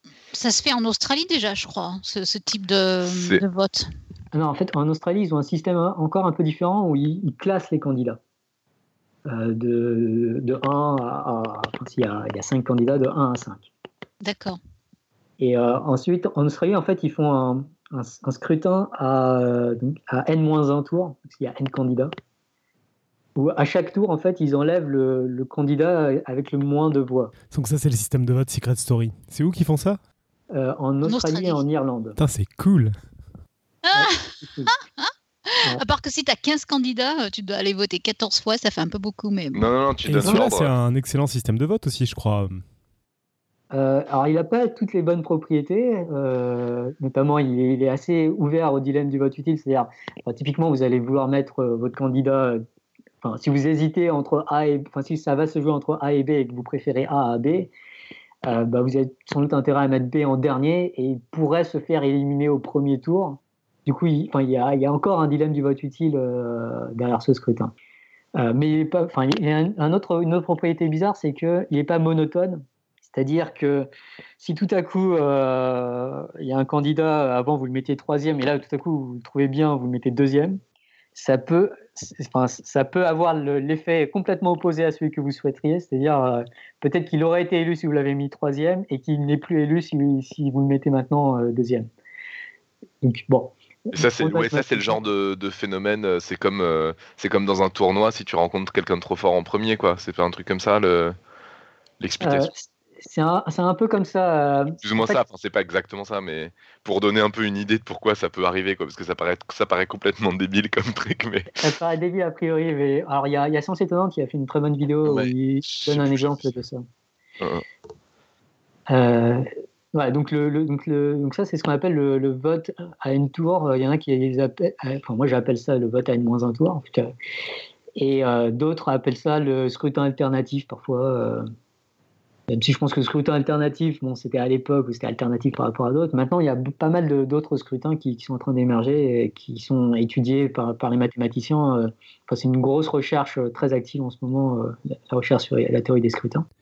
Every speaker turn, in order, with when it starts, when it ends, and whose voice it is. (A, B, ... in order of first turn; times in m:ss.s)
0:00.3-0:03.9 A
0:03.0-0:03.4 B
0:04.3-0:08.2 C
0:09.2-0:13.7 C
0:14.2-0:14.6 A
0:15.4-0:22.1 C
0:23.4-0:27.3 C
0:27.5-0:30.0 D
0:30.5-0:32.2 C
0:31.0-0:31.6 A
0:32.2-0:33.0 D
0:33.8-0:39.6 A
0:33.9-0:34.7 C
0:39.5-0:40.7 B
0:40.0-0:42.6 D
0:43.7-0:52.6 C
0:53.2-0:57.7 C
0:58.4-1:07.7 C
1:08.4-1:13.9 C
1:14.4-1:20.6 C
1:21.2-1:31.9 C
1:33.0-1:35.0 C
1:33.9-1:41.2 B
1:42.0-1:42.5 B
1:42.2-1:45.2 C
1:44.8-1:51.7 B
1:51.6-1:56.8 C
1:55.0-1:56.6 B
1:58.9-2:07.1 C
2:08.0-2:11.4 C
2:12.5-2:26.4 C